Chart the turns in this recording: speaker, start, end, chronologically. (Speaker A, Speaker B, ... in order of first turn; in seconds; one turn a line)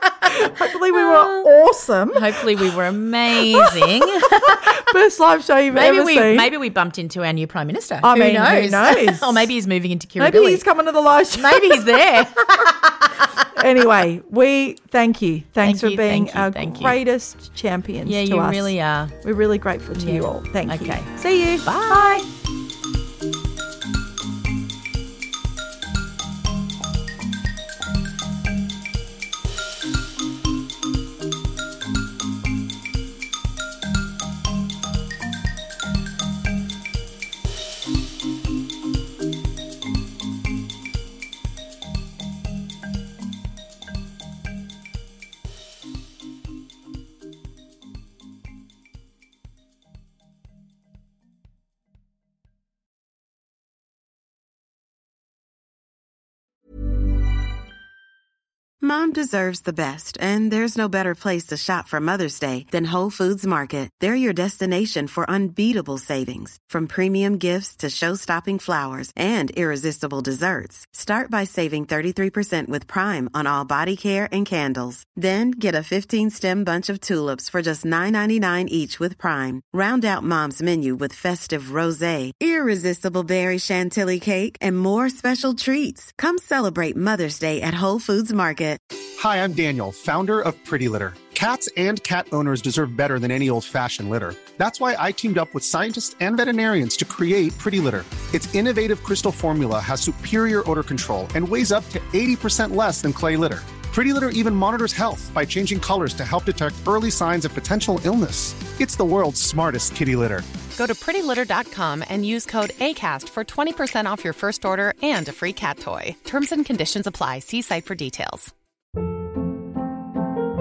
Speaker A: 0.2-2.7
Speaker B: 0.2-1.5
Speaker B: 2.1-4.8
Speaker A: 3.4-6.5
Speaker B: 5.7-10.7
Speaker A: 8.0-9.5
Speaker A: 10.2-12.3
Speaker B: 11.3-13.4
Speaker A: 13.5-22.3
Speaker B: 15.6-17.0
Speaker B: 18.1-19.2
Speaker B: 19.9-21.1
Speaker B: 21.6-22.3
Speaker C: 58.8-88.8
Speaker D: 89.2-110.5
Speaker E: 110.8-118.5